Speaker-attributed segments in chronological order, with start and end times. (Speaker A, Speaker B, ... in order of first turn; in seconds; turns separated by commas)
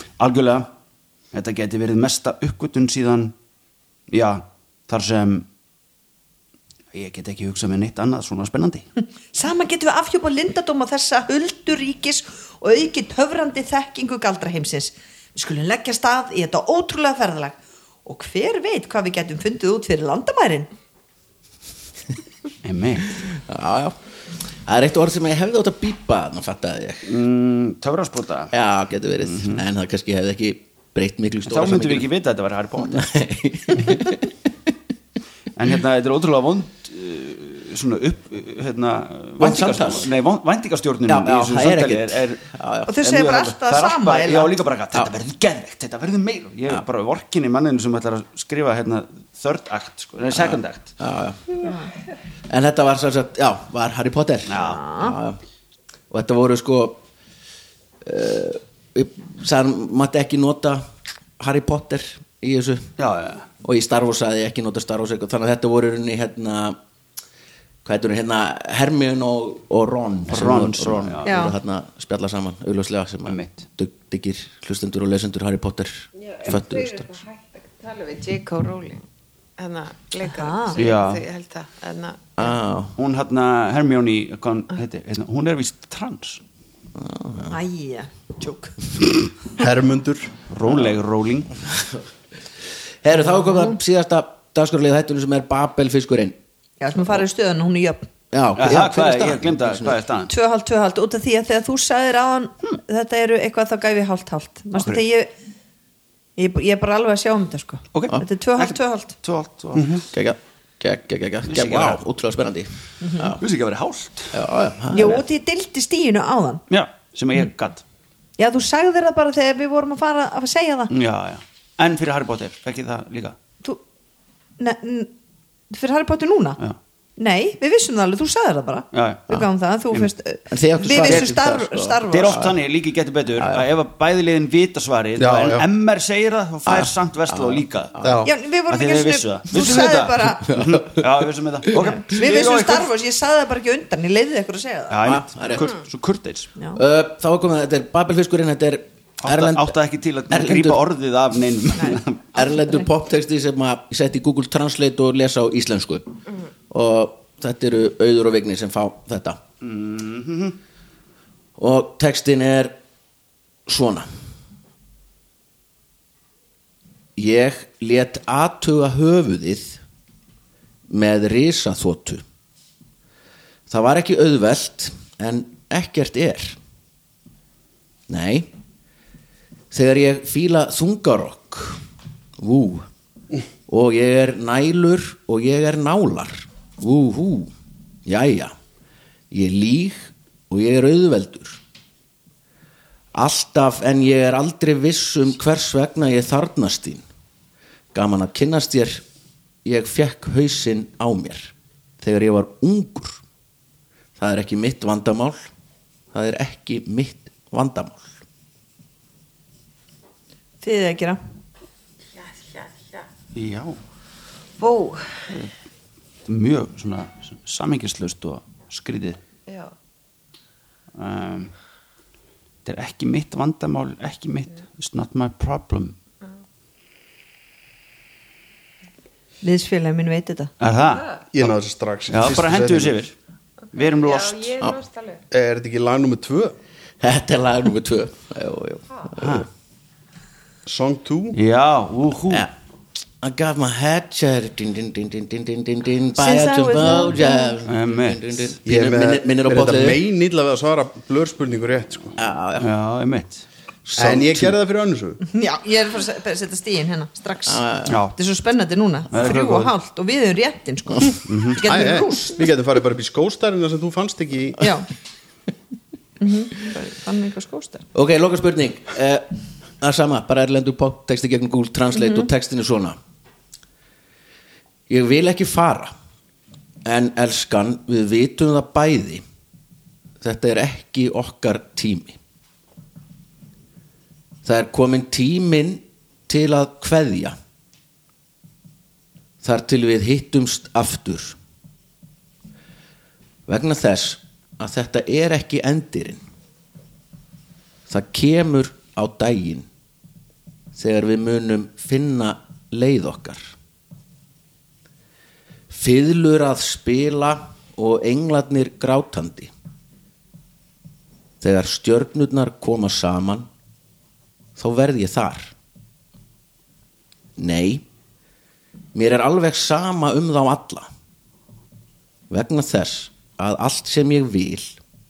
Speaker A: 0.2-0.7, Speaker A: 1.3-3.3, Speaker A: 4.1-5.5, Speaker A: 6.9-8.8, Speaker B: 9.3-20.7, Speaker A: 22.6-23.2, Speaker C: 23.3-23.9, Speaker C: 24.6-27.0, Speaker A: 27.1-28.5, Speaker C: 28.5-32.1, Speaker A: 29.2-29.6, Speaker A: 31.4-33.0, Speaker C: 32.8-34.3, Speaker A: 35.5-42.4, Speaker C: 39.4-40.1, Speaker C: 41.1-42.9, Speaker B: 42.9-44.5, Speaker A: 43.0-50.9, Speaker C: 50.3-51.4, Speaker B: 51.6-51.9, Speaker C: 52.5-55.4, Speaker A: 54.5-54.8, Speaker B: 54.5-55.1, Speaker C: 56.1-57.0, Speaker C: 58.0-62.9, Speaker A: 63.0-63.5, Speaker C: 63.6-66.8, Speaker C: 67.8-77.1, Speaker A: 70.3-71.5, Speaker B: 71.2-71.5, Speaker A: 73.2-73.7, Speaker D: 76.2-79.0, Speaker D: 79.6-82.2, Speaker B: 80.2-80.8, Speaker A: 80.8-81.2, Speaker C: 82.4-82.9, Speaker A: 83.0-86.4, Speaker C: 87.0-87.6, Speaker B: 87.5-88.7, Speaker E: 89.6-90.3, Speaker A: 90.5-91.5, Speaker C: 90.7-91.0, Speaker C: 93.0-96.4, Speaker B: 93.2-93.8, Speaker B: 96.8-98.1, Speaker C: 98.3-100.0, Speaker A: 98.5-100.3, Speaker B: 100.3-105.3, Speaker A: 104.7-105.0, Speaker B: 106.4-109.1, Speaker A: 107.9-110.0, Speaker E: 109.8-110.0, Speaker C: 110.1-113.4, Speaker A: 111.5-112.0, Speaker B: 113.0-113.3, Speaker A: 113.4-114.3, Speaker C: 114.3-115.2, Speaker B: 114.9-116.6, Speaker A: 116.7-117.8, Speaker B: 118.4-120.9, Speaker A: 120.9-123.3, Speaker B: 124.6-125.1, Speaker B: 125.7-126.6, Speaker B: 127.2-132.4, Speaker A: 128.9-130.1, Speaker C: 130.5-132.6, Speaker A: 131.0-131.3, Speaker A: 132.1-142.9, Speaker C: 133.4-133.7, Speaker E: 135.2-135.7, Speaker C: 136.7-138.2, Speaker E: 138.0-138.3, Speaker B: 138.2-140.4, Speaker C: 140.5-141.1, Speaker B: 141.7-145.0, Speaker A: 144.9-146.5, Speaker C: 145.0-145.7, Speaker C: 146.8-149.8, Speaker A: 149.2-152.2, Speaker C: 150.3-150.8, Speaker B: 151.8-152.0, Speaker C: 152.3-156.2, Speaker C: 156.7-159.4, Speaker A: 159.6-160.6, Speaker C: 161.6-162.8, Speaker C: 163.7-164.1, Speaker C: 167.2-169.8, Speaker C: 170.9-172.2, Speaker C: 173.7-176.6, Speaker C: 178.1-178.5, Speaker C: 179.7-181.8, Speaker C: 182.4-182.9, Speaker C: 183.7-187.5, Speaker C: 188.1-188.5, Speaker C: 189.3-191.6, Speaker C: 193.1-197.0, Speaker C: 197.9-199.0, Speaker C: 199.6-203.2, Speaker C: 204.2-205.4, Speaker C: 206.1-208.1, Speaker B: 210.6-211.2, Speaker D: 212.2-213.0, Speaker A: 213.3-213.8, Speaker D: 214.6-215.2, Speaker A: 216.2-219.2, Speaker D: 219.5-219.7, Speaker A: 220.9-221.5, Speaker A: 222.6-225.9, Speaker B: 229.4-230.5, Speaker A: 230.6-231.5, Speaker E: 231.3-233.0, Speaker A: 232.1-233.1, Speaker D: 233.7-235.2, Speaker A: 233.7-234.5, Speaker E: 235.3-236.5, Speaker C: 237.0-239.5, Speaker A: 239.2-239.4, Speaker E: 240.7-241.4, Speaker A: 241.3-242.5, Speaker C: 243.2-250.0, Speaker B: 246.2-247.5, Speaker A: 247.1-248.6, Speaker E: 248.7-252.2, Speaker C: 252.2-252.7, Speaker A: 252.6-253.4, Speaker C: 253.8-254.5, Speaker E: 254.0-255.2, Speaker B: 255.2-262.5, Speaker C: 257.5-258.1, Speaker A: 257.9-258.1, Speaker A: 259.1-259.7, Speaker A: 261.3-261.6, Speaker E: 261.6-264.7, Speaker B: 264.6-264.9, Speaker B: 266.2-267.9, Speaker C: 267.9-269.3, Speaker C: 269.8-273.0, Speaker B: 271.9-272.3, Speaker C: 274.9-275.9, Speaker C: 276.8-279.2, Speaker C: 280.2-282.2, Speaker C: 284.4-287.4, Speaker C: 289.4-291.4, Speaker C: 293.5-296.2, Speaker C: 297.9-299.7, Speaker C: 300.7-303.5, Speaker C: 305.7-309.5, Speaker C: 311.4-313.5, Speaker C: 314.6-315.5, Speaker C: 317.4-317.8, Speaker C: 318.9-320.9, Speaker C: 322.3-324.8